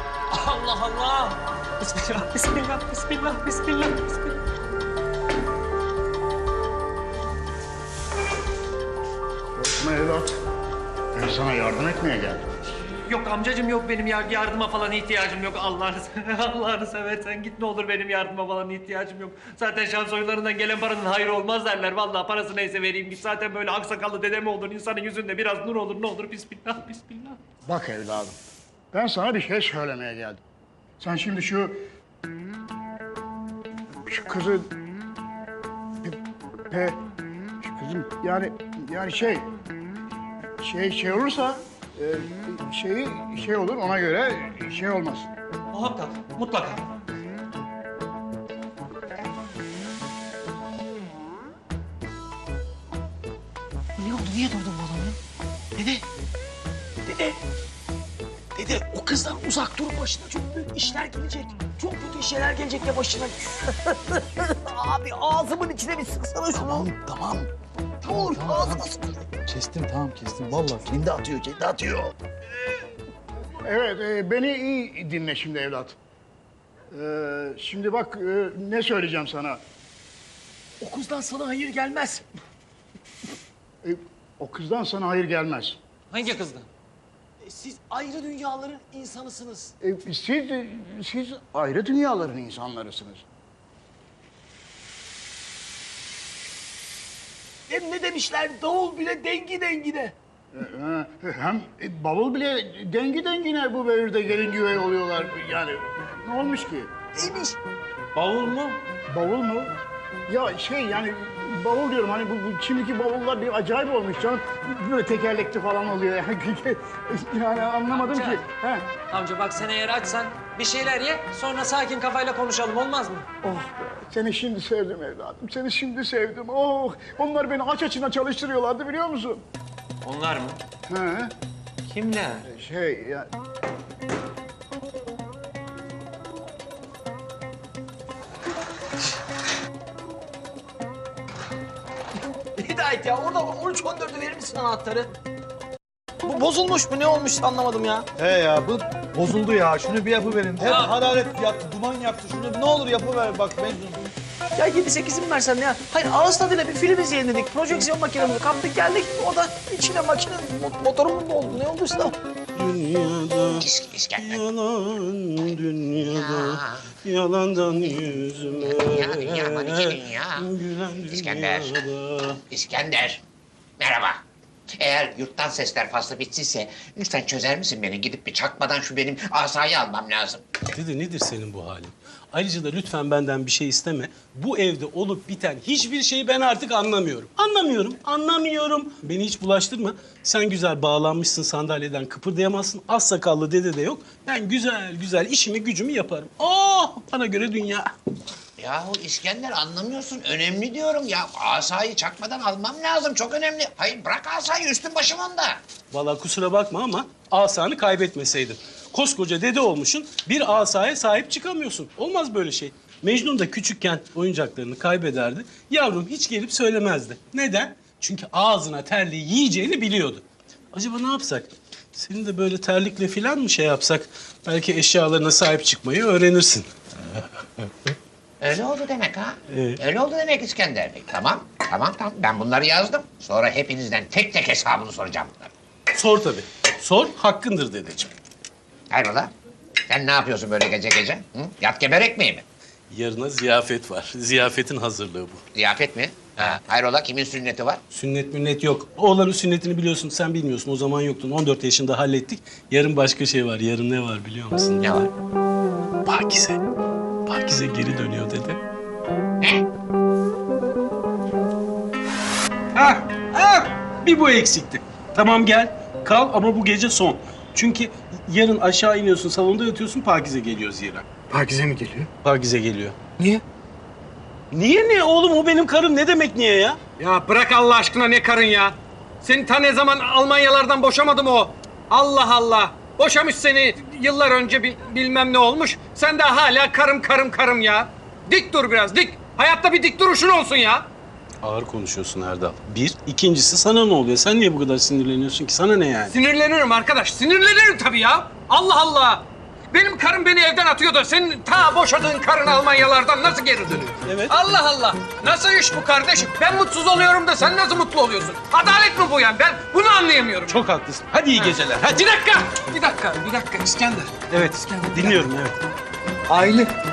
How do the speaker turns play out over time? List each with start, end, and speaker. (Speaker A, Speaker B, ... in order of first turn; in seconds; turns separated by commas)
Speaker A: 0.3-4.4, Speaker B: 9.6-10.3, Speaker B: 11.1-12.5, Speaker A: 13.1-27.4, Speaker B: 27.7-28.4, Speaker B: 28.9-30.4, Speaker B: 31.0-31.8, Speaker B: 34.1-34.7, Speaker B: 36.7-37.0, Speaker B: 37.6-39.5, Speaker B: 40.6-45.3, Speaker A: 45.7-46.9, Speaker C: 54.0-55.2, Speaker C: 55.8-56.0, Speaker C: 57.1-57.4, Speaker C: 58.5-67.5, Speaker C: 68.0-69.1, Speaker D: 70.0-72.1, Speaker B: 73.6-76.0, Speaker B: 76.9-79.6, Speaker C: 80.8-82.2, Speaker B: 83.8-85.8, Speaker A: 86.1-86.7, Speaker C: 87.4-89.7, Speaker B: 89.8-93.2, Speaker C: 97.7-100.1, Speaker B: 100.5-106.9, Speaker C: 107.2-107.6, Speaker B: 109.1-109.7, Speaker B: 110.3-118.9, Speaker A: 117.9-118.4, Speaker A: 119.1-123.3, Speaker B: 123.4-129.4, Speaker A: 130.0-130.6, Speaker B: 130.9-131.3, Speaker A: 131.9-132.4, Speaker B: 132.4-133.3, Speaker C: 142.5-145.1, Speaker C: 146.2-148.1, Speaker D: 148.2-154.0, Speaker C: 154.6-162.1, Speaker E: 162.6-163.7, Speaker F: 163.6-164.4, Speaker E: 164.2-172.4, Speaker F: 166.0-166.9, Speaker F: 168.6-170.5, Speaker F: 171.1-171.8, Speaker F: 172.5-173.2, Speaker F: 173.8-174.2, Speaker F: 174.8-180.4, Speaker E: 180.7-197.9, Speaker F: 198.6-205.6, Speaker E: 205.9-226.7, Speaker F: 228.4-235.5, Speaker E: 229.5-229.8, Speaker E: 235.9-238.1, Speaker F: 238.9-239.3, Speaker F: 239.9-242.4, Speaker E: 242.9-245.4, Speaker F: 245.5-247.8, Speaker E: 247.9-255.0, Speaker F: 254.8-255.1, Speaker E: 256.1-256.6, Speaker E: 257.3-258.6, Speaker E: 262.8-273.0, Speaker E: 274.5-276.8, Speaker G: 277.0-290.9, Speaker E: 291.4-296.1, Speaker G: 296.1-310.6, Speaker E: 304.1-304.4, Speaker E: 310.5-312.1, Speaker G: 311.5-314.1, Speaker E: 314.3-315.6, Speaker G: 314.9-315.2, Speaker G: 316.3-316.7